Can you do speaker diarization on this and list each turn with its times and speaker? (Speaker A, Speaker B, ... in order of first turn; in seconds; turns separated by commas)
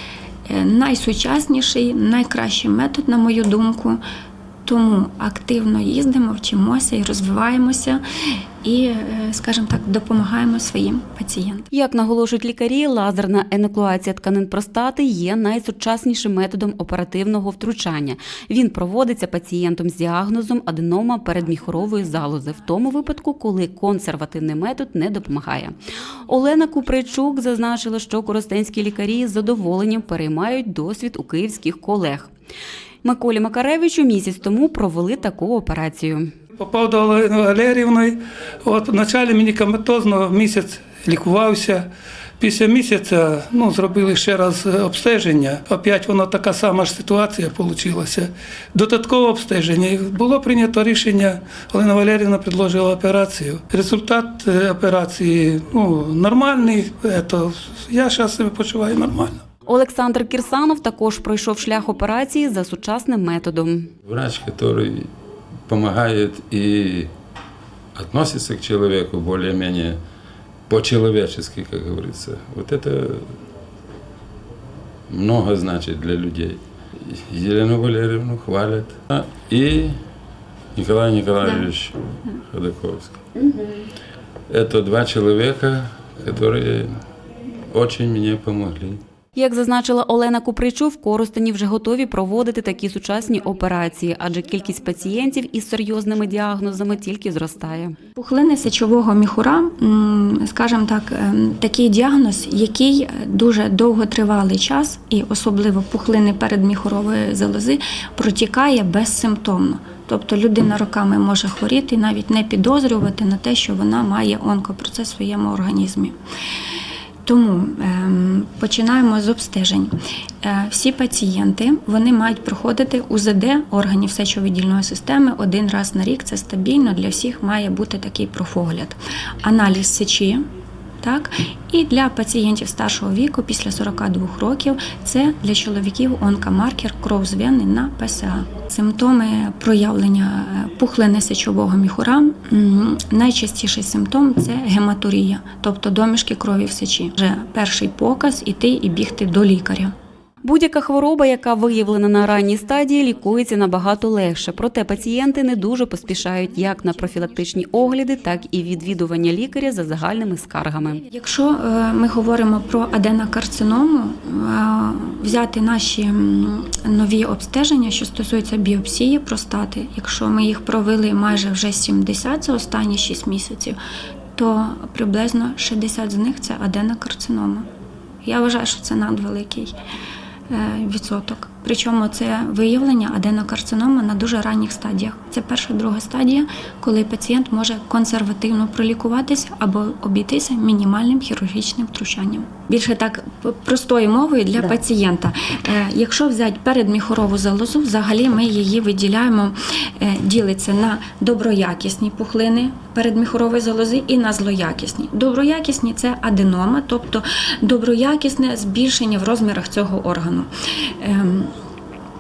Speaker A: 0.5-4.0, Speaker A: 4.7-8.0, Speaker A: 8.6-11.7, Speaker B: 11.7-25.8, Speaker B: 26.3-32.3, Speaker B: 33.0-36.3, Speaker C: 36.6-59.4, Speaker B: 59.7-63.9, Speaker D: 64.0-65.1, Speaker D: 65.7-67.1, Speaker D: 68.0-70.0, Speaker D: 70.7-73.3, Speaker D: 75.1-80.0, Speaker D: 80.8-83.2, Speaker D: 84.5-87.0, Speaker D: 87.7-89.0, Speaker B: 89.4-98.0, Speaker A: 98.2-116.2, Speaker A: 117.3-119.9, Speaker A: 120.4-130.4, Speaker A: 131.0-149.9, Speaker B: 150.4-161.0, Speaker A: 161.1-173.8, Speaker A: 174.4-177.7, Speaker A: 178.2-179.7, Speaker A: 180.5-210.5, Speaker A: 211.0-211.5